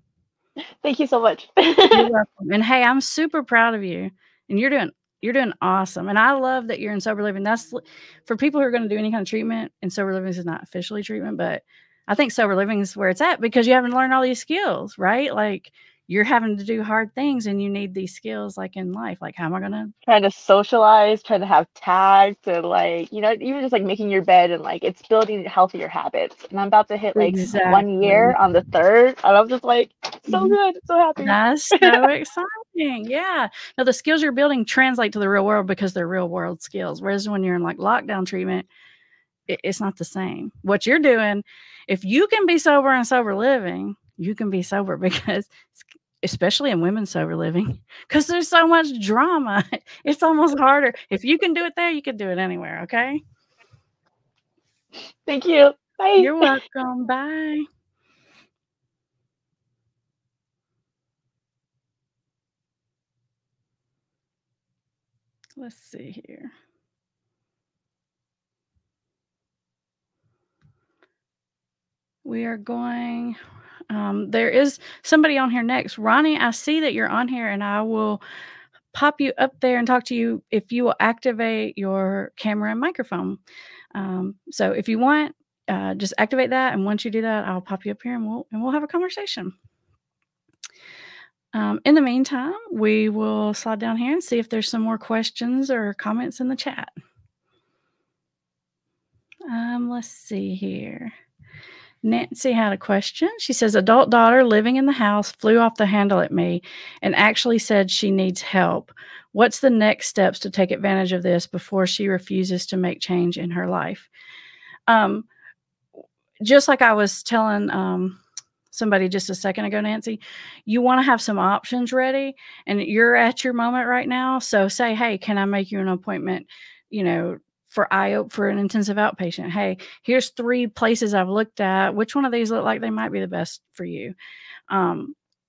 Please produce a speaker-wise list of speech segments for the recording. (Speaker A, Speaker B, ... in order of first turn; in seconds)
Speaker A: 0.8-2.1, 20.1-32.0, 55.2-56.5
Speaker B: 1.9-19.9, 27.1-28.3, 30.3-30.6, 31.2-38.7, 39.5-53.2, 56.2-57.6, 65.6-66.5, 72.2-73.4, 73.9-78.2, 78.9-83.4, 83.9-89.5, 91.5-96.9, 99.5-101.1, 102.0-114.1, 114.9-115.2, 116.4-118.2, 118.7-134.1, 134.7-135.2